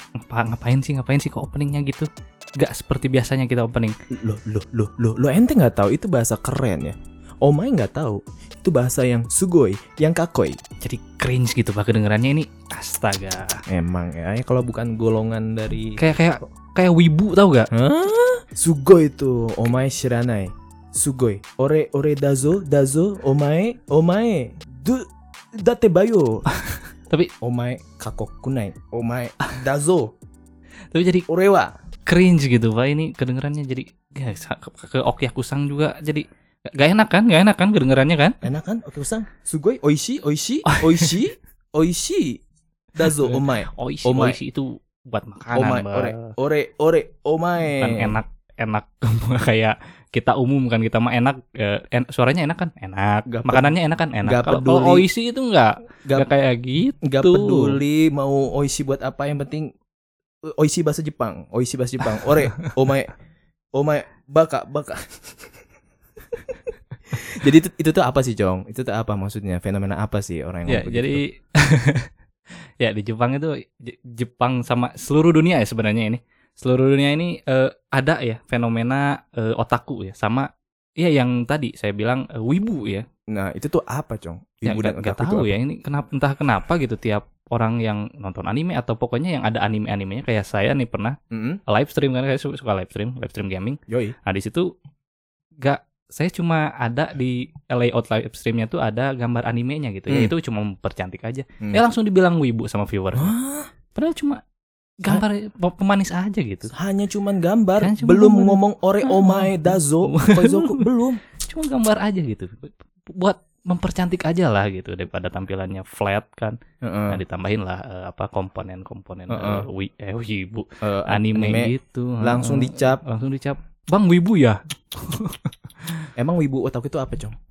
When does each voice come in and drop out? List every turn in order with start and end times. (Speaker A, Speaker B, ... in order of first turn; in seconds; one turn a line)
Speaker A: 0.2-2.1
Speaker A: 2.6-4.0
Speaker B: 4.1-10.6
Speaker A: 10.8-13.6
Speaker B: 13.7-16.0
Speaker A: 16.0-17.7
Speaker B: 17.7-26.4
Speaker A: 26.6-27.3
Speaker B: 27.4-30.1
Speaker A: 30.9-31.3
Speaker B: 31.3-31.7
Speaker A: 32.1-38.4
Speaker B: 38.4-42.4
Speaker A: 40.7-41.2
Speaker B: 43.0-44.4
Speaker A: 43.0-46.2
Speaker B: 45.5-48.2
Speaker A: 47.8-57.8
Speaker B: 53.3-53.7
Speaker B: 54.2-55.1
Speaker B: 56.1-56.3
Speaker B: 57.0-59.7
Speaker B: 60.4-63.1
Speaker B: 63.8-65.2
Speaker B: 67.1-71.2
Speaker A: 70.7-72.1
Speaker A: 72.8-83.0
Speaker B: 83.3-85.5
Speaker A: 84.7-91.2
Speaker B: 91.3-91.6
Speaker A: 91.7-94.7
Speaker B: 93.9-94.2
Speaker A: 95.6-103.3
Speaker B: 103.2-103.7
Speaker A: 104.0-104.4
Speaker A: 105.0-106.7
Speaker B: 106.7-111.2
Speaker A: 107.8-110.8
Speaker A: 111.4-116.6
Speaker B: 116.8-117.2
Speaker A: 117.1-126.1
Speaker B: 119.3-119.7
Speaker B: 120.8-123.0
Speaker B: 126.2-127.3